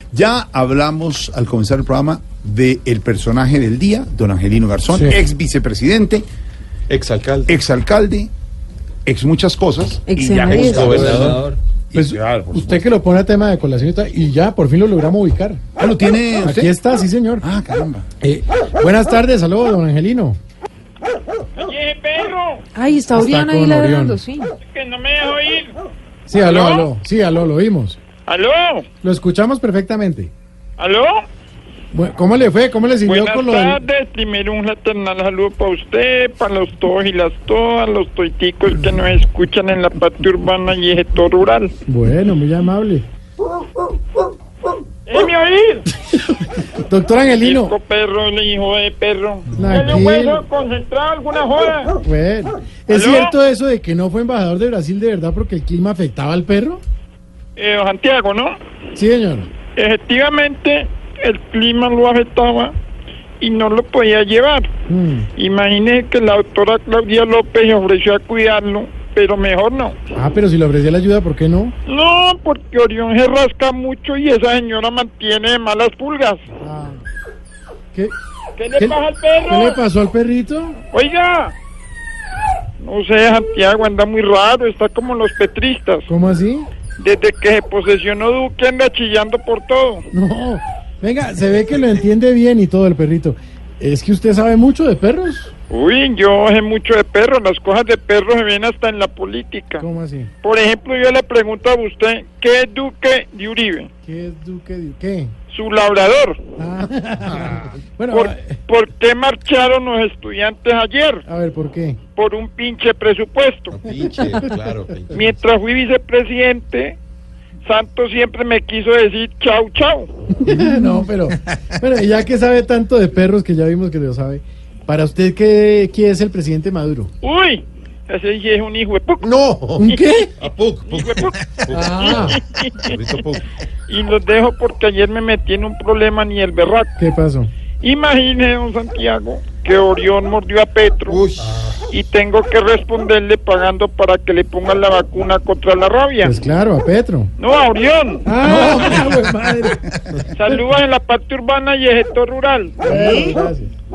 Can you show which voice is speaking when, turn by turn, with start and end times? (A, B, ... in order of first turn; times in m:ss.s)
0:00.1-0:06.2 A
0:04.9-0:05.2 B
0:06.9-0:07.6 C
0:07.5-0:08.3 A
0:09.1-0:11.4 A
0:10.1-0:11.0 D
0:10.6-0:12.6 C
0:11.9-0:15.7 B
0:15.8-0:16.7 A
0:16.4-0:17.5 B
0:17.4-0:18.1 A
0:18.2-0:20.4 B
0:21.6-0:22.6 E
0:22.8-0:24.5 D
0:23.1-0:24.2 B
0:24.6-0:25.8 E
0:26.3-0:28.0 B
0:26.4-0:26.9 E
0:28.3-0:28.9 E
0:29.0-0:30.3 B
0:30.8-0:31.2 E
0:31.9-0:33.8 B
0:33.0-0:41.7 E
0:41.9-0:43.1 B
0:45.1-0:45.9 E
0:46.7-0:47.8 B
0:47.4-0:52.0 E
0:49.5-0:50.4 B
0:52.0-0:56.8 B
0:52.9-0:53.4 E
0:57.6-0:58.6 E
0:59.0-0:59.5 B
0:59.8-1:02.7 E
1:03.4-1:04.7 E
1:04.9-1:05.3 B
1:05.4-1:10.0 E
1:10.2-1:11.8 B
1:11.9-1:16.4 E
1:16.6-1:17.0 B
1:18.6-1:19.8 E
1:18.8-1:20.8 B
1:20.9-1:21.6 E
1:22.8-1:26.1 E
1:26.1-1:26.7 B
1:27.0-1:30.1 E
1:30.1-1:35.5 B
1:35.7-1:39.9 E
1:39.8-1:40.3 B
1:40.4-1:43.9 E
1:44.0-1:45.3 B
1:45.5-1:46.4 E
1:46.6-1:48.6 B
1:48.1-1:51.2 E
1:51.3-1:52.0 B
1:52.2-1:53.8 E
1:53.7-1:55.3 C
1:55.1-1:57.0 E
1:57.6-2:00.1 E
2:00.3-2:07.1 B
2:07.2-2:09.3 E
2:09.4-2:10.3 B
2:09.8-2:10.3 E
2:10.4-2:11.9 A
2:10.8-2:13.0 E
2:11.7-2:12.4 C
2:11.7-2:12.3 B
2:12.9-2:13.4 A
2:13.9-2:16.9 E
2:17.0-2:17.5 B
2:17.8-2:21.2 E
2:21.9-2:26.4 E
2:26.2-2:27.3 B
2:27.4-2:28.3 E
2:28.2-2:30.6 B
2:28.4-2:28.9 A
2:30.3-2:33.0 E
2:32.8-2:33.7 B